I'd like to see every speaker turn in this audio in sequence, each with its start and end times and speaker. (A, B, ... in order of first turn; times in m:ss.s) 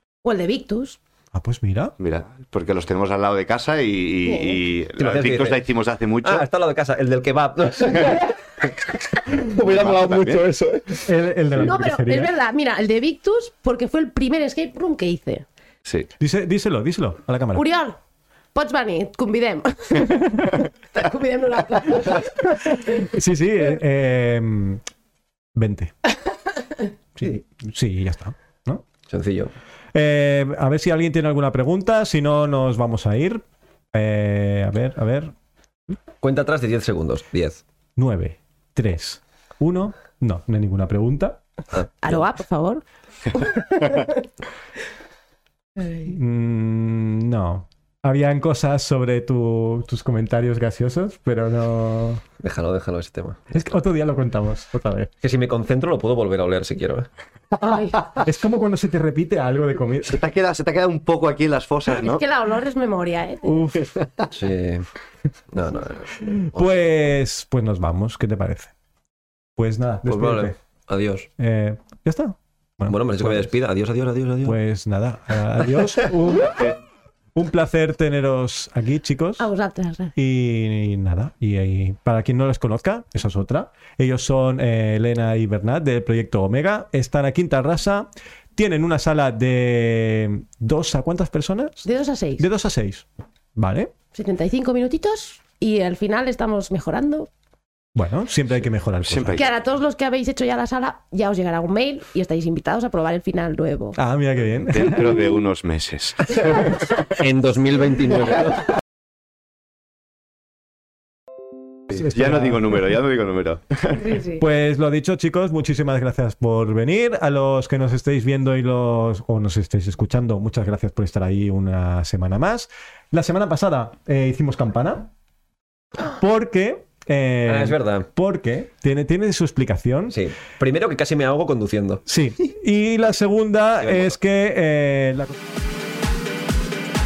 0:00.2-0:01.0 A
0:01.3-0:01.9 B
0:02.0-0:06.5 C
0:04.3-0:04.6 A
0:05.0-0:05.6 D
0:06.2-0:08.7 D
0:09.3-0:11.7 D
0:09.6-0:10.4 C
0:11.0-0:12.3 B
0:11.6-0:15.5 A
0:16.2-0:17.6 B
0:17.5-0:18.0 A
0:18.6-0:23.0 A
0:22.9-0:24.8 B
0:25.6-0:26.1 B
0:27.2-0:28.8 B
0:29.1-0:29.6 D
0:29.9-0:35.3 B
0:36.2-0:37.6 D
0:38.0-0:41.4 B
0:42.0-0:44.2 A
0:45.8-0:46.1 A
0:46.0-0:52.2 B
0:52.4-0:53.6 D
0:53.5-0:55.1 B
0:55.2-0:57.1 D
0:57.6-0:58.1 A
0:58.2-1:00.2 B
1:00.1-1:02.2 C
1:01.9-1:03.8 A
1:03.4-1:03.9 B
1:04.3-1:04.9 D
1:05.5-1:06.8 D
1:06.3-1:08.7 B
1:09.6-1:10.6 B
1:10.0-1:11.3 D
1:11.4-1:13.5 B
1:12.9-1:14.6 D
1:14.4-1:16.7 B
1:17.3-1:19.5 B
1:19.4-1:20.1 A
1:20.2-1:31.9 B
1:31.8-1:32.4 A
1:32.4-1:33.9 B
1:34.1-1:37.3 A
1:38.0-1:39.4 B
1:39.0-1:39.5 C
1:39.3-1:44.0 A
1:44.0-1:45.2 B
1:44.7-1:47.0 C
1:47.1-1:48.6 D
1:51.9-1:52.6 B
1:51.9-1:54.2 C
1:54.0-1:54.4 A
1:54.4-2:05.1 B
2:06.0-2:10.2 B
2:07.4-2:08.1 D
2:10.1-2:12.0 D
2:12.1-2:15.3 B
2:13.8-2:14.2 D